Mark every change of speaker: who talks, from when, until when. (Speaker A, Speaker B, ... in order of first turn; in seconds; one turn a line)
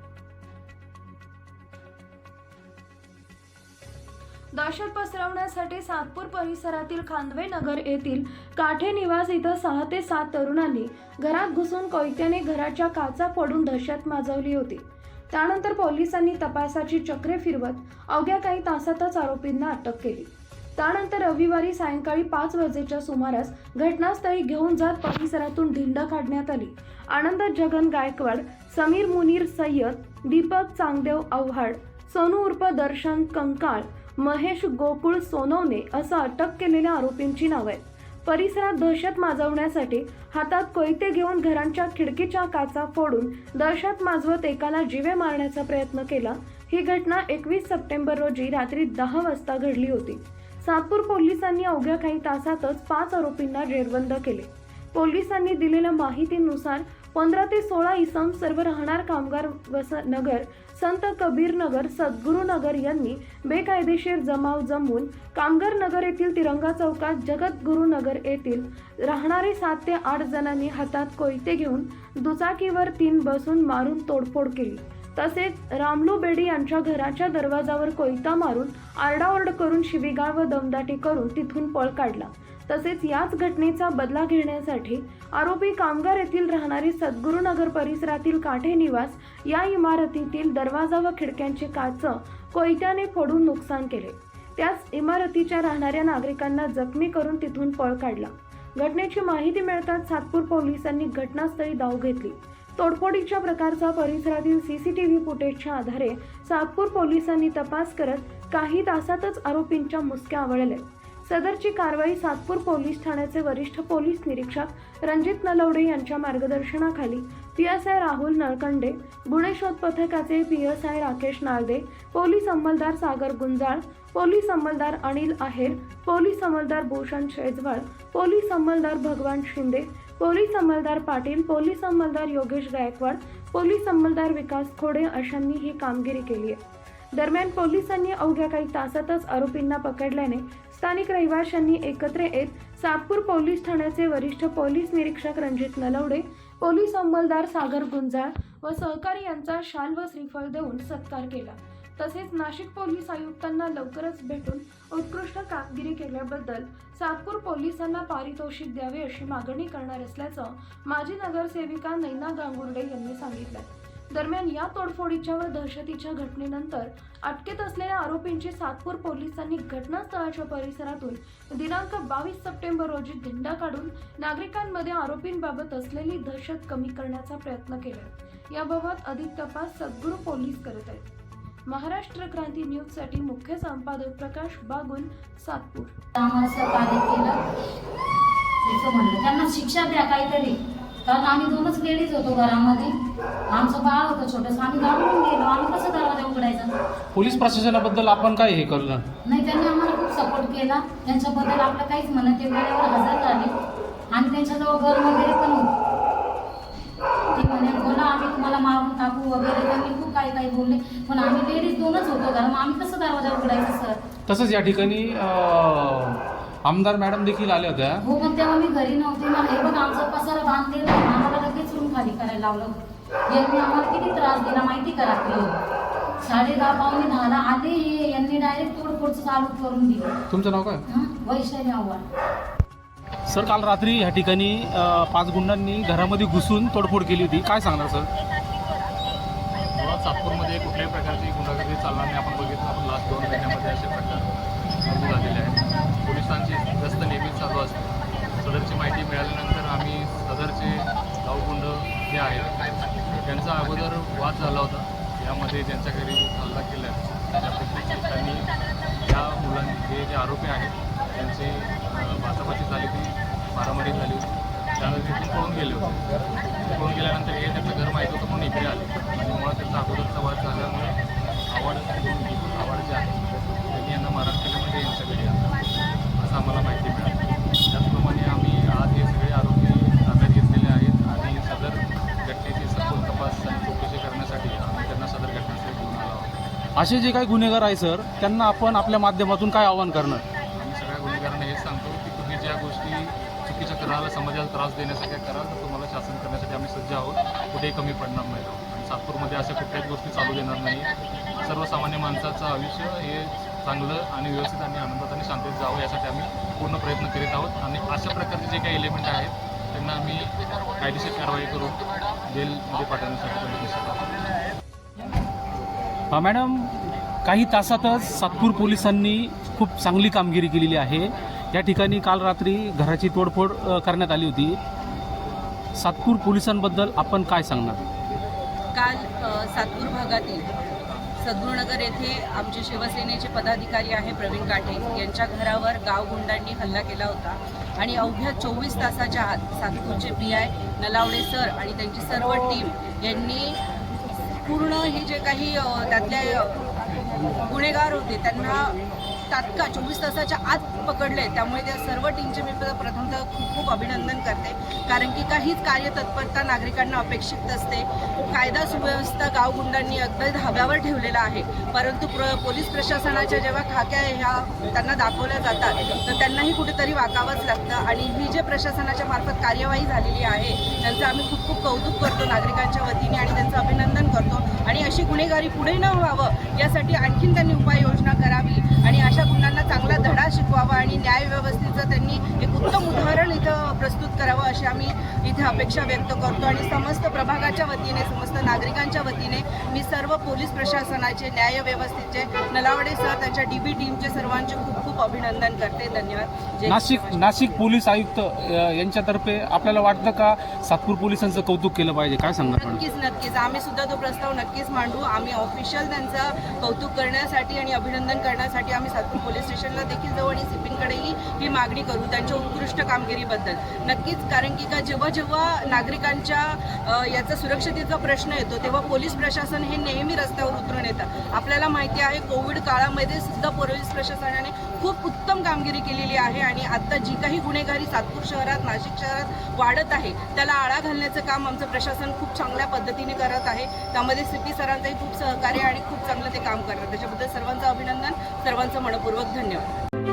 Speaker A: 4.5-136.6
Speaker A: 137.1-181.1
Speaker A: 181.7-186.0
Speaker B: 186.2-187.4
Speaker B: 188.6-190.6
Speaker B: 191.1-192.9
Speaker B: 193.5-196.7
Speaker C: 197.1-199.1
Speaker B: 199.2-203.5
Speaker B: 204.1-205.7
Speaker B: 207.3-214.0
Speaker C: 214.3-218.0
Speaker B: 218.1-222.8
Speaker B: 223.3-225.5
Speaker B: 226.2-230.2
Speaker C: 230.3-230.8
Speaker B: 230.9-232.1
Speaker C: 233.3-238.1
Speaker D: 239.8-244.3
Speaker D: 244.8-252.5
Speaker D: 253.1-258.5
Speaker D: 259.1-271.0
Speaker D: 271.5-275.6
Speaker D: 276.2-286.3
Speaker C: 286.8-290.2
Speaker D: 290.6-314.1
Speaker C: 316.1-324.6
Speaker C: 325.8-327.8
Speaker E: 328.7-330.4
Speaker E: 331.2-343.6
Speaker E: 344.4-346.7
Speaker E: 347.4-348.8
Speaker E: 349.3-397.4
Speaker C: 396.7-402.8
Speaker E: 402.6-439.7